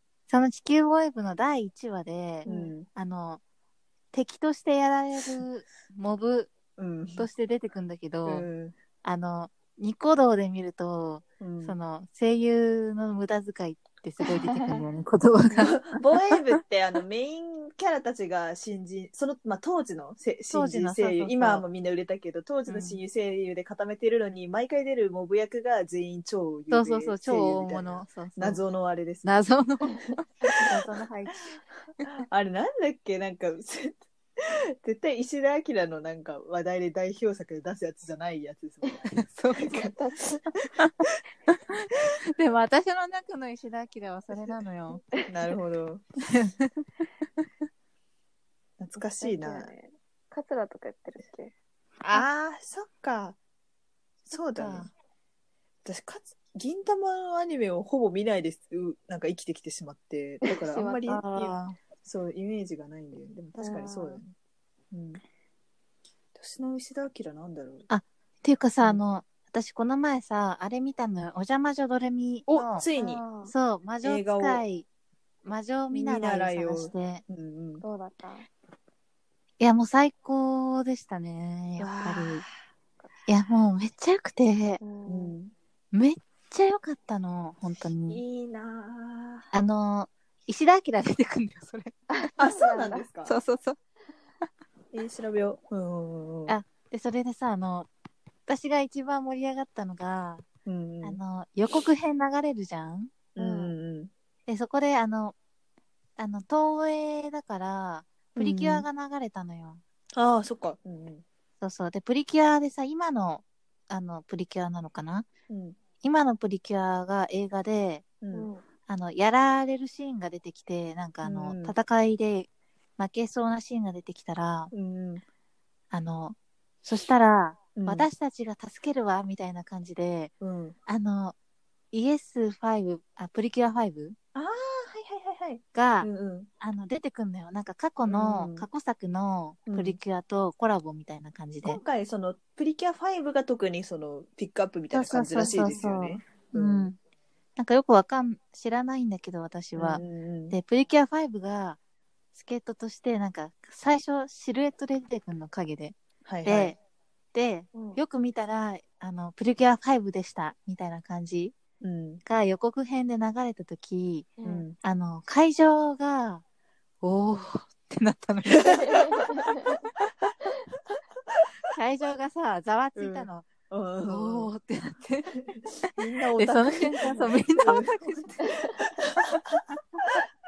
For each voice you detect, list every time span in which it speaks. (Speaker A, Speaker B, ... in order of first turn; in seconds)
Speaker A: 0.3-3.4, 4.1-6.5, 7.2-8.5, 9.0-15.8, 20.5-21.6, 22.7-23.0, 26.7-28.6, 29.2-31.5, 39.1-39.9, 40.8-45.0, 46.3-46.8, 54.4-54.9, 61.1-61.8, 67.9-72.9, 73.5-74.9, 75.5-77.2, 79.6-82.5, 83.3-84.8, 85.9-88.2, 89.5-92.0, 93.2-93.8, 96.5-97.9, 98.5-100.5, 101.0-103.1, 104.5-105.4, 106.2-109.8, 111.6-115.3, 116.0-118.0, 118.9-124.7, 125.9-130.3, 130.9-131.4, 131.9-134.2, 135.7-136.1, 136.6-141.8, 144.9-147.0, 147.6-151.8, 152.3-156.8, 157.3-161.6, 162.2-164.3, 164.8-166.4, 167.0-169.9, 171.7-173.5, 174.0-178.3
Speaker B: 2.5-2.7, 14.2-14.8, 39.6-40.4, 49.0-51.5, 60.4-61.5, 63.6-64.2, 72.9-73.5, 77.8-78.5, 84.8-85.4, 92.1-93.0, 103.4-103.7, 118.3-118.6, 157.7-158.0, 164.4-164.7, 168.9-169.7
Speaker C: 2.5-2.9, 6.8-7.3, 8.3-8.8, 11.4-11.8, 15.6-29.3, 32.2-39.9, 40.6-41.1, 45.3-46.0, 48.8-49.7, 52.0-53.4, 54.3-54.9, 55.9-64.3, 64.9-65.2, 66.3-67.9, 72.5-73.2, 74.0-74.6, 75.9-77.8, 81.8-82.5, 85.1-85.5, 88.1-89.5, 92.4-93.4, 94.9-96.5, 100.7-101.2, 103.3-104.1, 108.4-108.9, 110.1-111.2, 115.5-115.8, 118.2-118.5, 121.2-121.8, 124.7-125.2, 127.8-128.1, 130.4-130.8, 134.3-136.5, 138.1-138.7, 139.7-140.0, 141.6-146.9, 149.8-150.6, 156.2-156.8, 161.8-162.2, 164.4-164.8, 173.0-174.5, 175.5-180.2